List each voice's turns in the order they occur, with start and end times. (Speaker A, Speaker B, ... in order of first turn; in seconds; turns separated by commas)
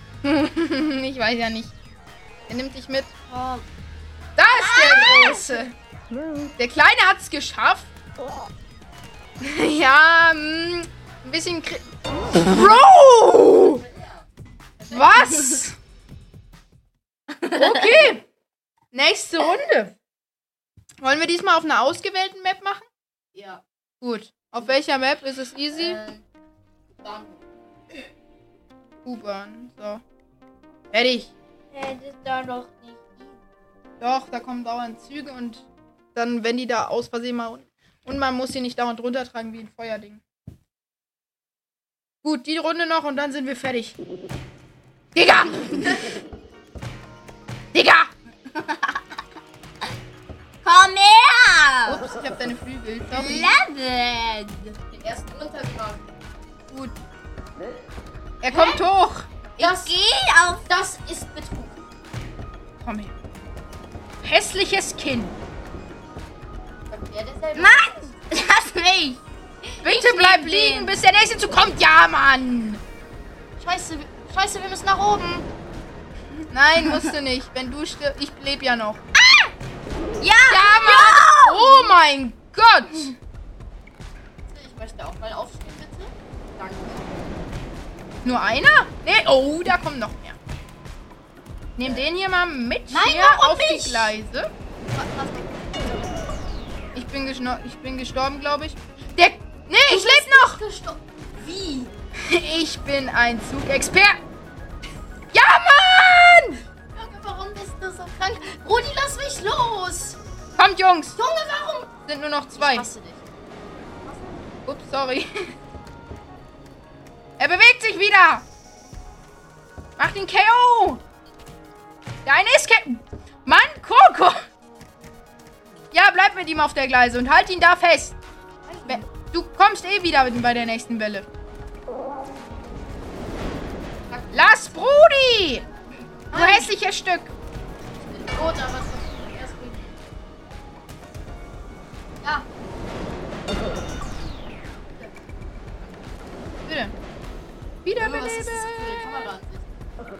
Speaker A: 0.2-1.7, Speaker A: 2.5-3.1, Speaker B: 3.3-3.6, Speaker A: 4.4-5.7, Speaker C: 4.5-5.6, Speaker A: 6.6-7.9, Speaker A: 9.4-13.8, Speaker B: 13.6-15.5, Speaker A: 14.9-15.8, Speaker A: 17.5-18.2, Speaker A: 18.9-19.9, Speaker A: 21.0-22.8, Speaker B: 23.3-23.6, Speaker A: 24.0-26.0, Speaker B: 25.7-26.2, Speaker B: 26.9-27.4, Speaker A: 29.0-30.0, Speaker A: 30.9-31.3, Speaker C: 31.7-33.4, Speaker A: 34.0-40.2, Speaker A: 42.2-43.9, Speaker A: 45.1-46.0, Speaker A: 47.7-48.1, Speaker C: 48.6-49.0, Speaker C: 50.6-52.0, Speaker A: 51.8-53.6, Speaker C: 53.1-54.7, Speaker B: 54.9-56.1, Speaker A: 56.7-57.0, Speaker A: 58.4-59.3, Speaker C: 58.5-58.8, Speaker B: 59.6-60.0, Speaker C: 59.6-60.6, Speaker B: 60.6-61.9, Speaker A: 62.8-63.1, Speaker A: 64.2-65.3, Speaker B: 66.9-68.0, Speaker C: 67.5-69.2, Speaker C: 69.8-70.9, Speaker A: 69.8-72.8, Speaker B: 73.6-75.5, Speaker A: 76.5-79.0, Speaker C: 79.2-79.5, Speaker C: 80.2-81.6, Speaker A: 80.5-83.1, Speaker B: 84.5-87.3, Speaker A: 88.2-90.4, Speaker A: 91.8-94.5, Speaker B: 92.9-94.1, Speaker B: 94.9-96.2, Speaker A: 96.9-100.6, Speaker B: 99.8-101.9, Speaker A: 102.2-104.2, Speaker A: 105.3-106.6, Speaker B: 106.9-110.2, Speaker A: 110.5-111.2, Speaker B: 111.2-111.9, Speaker A: 112.1-112.9, Speaker B: 112.5-113.3, Speaker B: 114.0-114.5, Speaker A: 114.7-115.3, Speaker A: 117.4-118.4, Speaker A: 120.0-121.0, Speaker A: 122.2-124.4, Speaker A: 125.9-128.2, Speaker B: 128.6-129.1, Speaker A: 128.8-131.2, Speaker B: 134.1-134.8, Speaker A: 134.3-135.7, Speaker B: 136.3-136.7, Speaker A: 136.3-137.3, Speaker B: 137.9-140.0, Speaker B: 142.2-142.5, Speaker B: 144.9-146.2, Speaker A: 146.7-146.9, Speaker A: 147.8-149.0, Speaker B: 147.9-149.9